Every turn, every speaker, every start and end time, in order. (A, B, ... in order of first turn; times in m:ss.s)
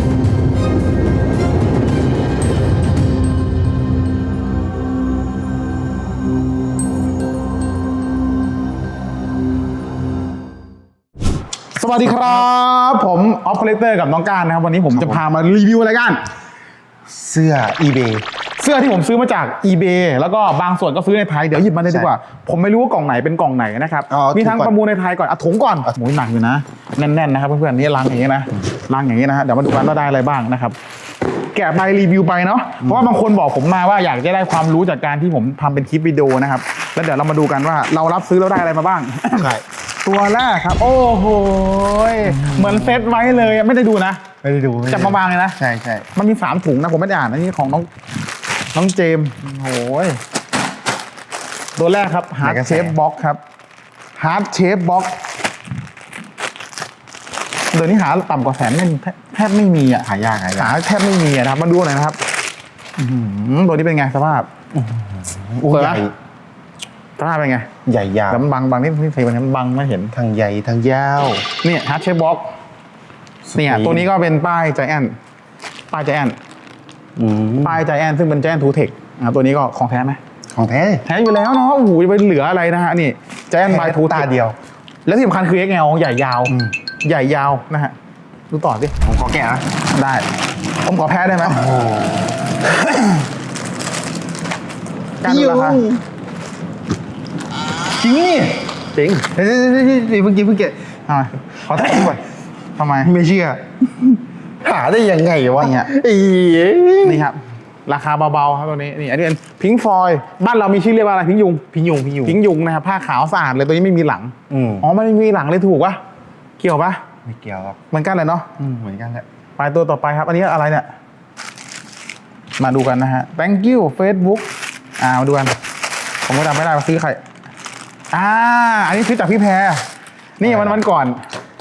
0:11.7-0:16.3 A
0:12.1-0:12.4 B
0:14.9-0:15.2 B
0:17.1-0:18.2 B
0:18.6-0:30.8 A
0:21.8-0:22.1 B
0:24.1-0:24.7 B
0:31.5-0:39.5 A
0:32.8-0:33.1 B
0:39.4-0:39.6 B
0:40.0-0:44.2 A
0:42.2-0:43.5 B
0:44.4-0:46.1 B
0:44.9-0:45.6 A
0:46.1-0:47.9 A
0:48.7-0:50.2 A
0:51.8-0:53.4 A
0:52.4-0:53.0 B
0:54.2-0:55.2 A
0:57.7-1:02.2 A
1:00.0-1:00.8 B
1:03.0-1:04.5 A
1:04.7-1:06.1 B
1:05.6-1:06.1 A
1:07.2-1:07.7 A
1:07.8-1:08.4 B
1:08.3-1:10.1 A
1:10.1-1:11.5 B
1:11.6-1:12.4 A
1:13.5-1:14.1 B
1:13.6-1:15.1 A
1:15.9-1:16.4 A
1:17.2-1:17.8 B
1:17.6-1:20.2 A
1:20.5-1:21.0 B
1:21.1-1:24.3 A
1:23.7-1:24.6 B
1:25.1-1:28.0 A
1:26.5-1:26.7 B
1:28.5-1:29.0 A
1:29.0-1:29.6 B
1:29.9-1:30.3 A
1:30.8-1:31.6 A
1:31.4-1:32.4 B
1:32.6-1:33.3 A
1:35.2-1:35.8 A
1:35.2-1:36.0 B
1:37.9-1:38.7 B
1:39.0-1:39.3 A
1:39.3-1:40.8 B
1:41.1-1:42.2 A
1:41.7-1:42.2 B
1:42.8-1:43.1 A
1:43.0-1:47.2 B
1:45.6-1:45.9 A
1:47.0-1:51.6 A
1:51.7-1:52.4 B
1:52.2-1:56.0 A
1:54.5-1:54.9 B
1:56.6-1:57.0 A
1:57.2-1:57.8 B
1:57.9-1:58.6 A
1:58.6-1:59.2 B
1:59.6-2:00.9 A
2:02.6-2:04.5 A
2:05.0-2:05.5 A
2:06.3-2:07.2 A
2:08.1-2:09.8 A
2:10.4-2:11.2 A
2:10.4-2:10.8 B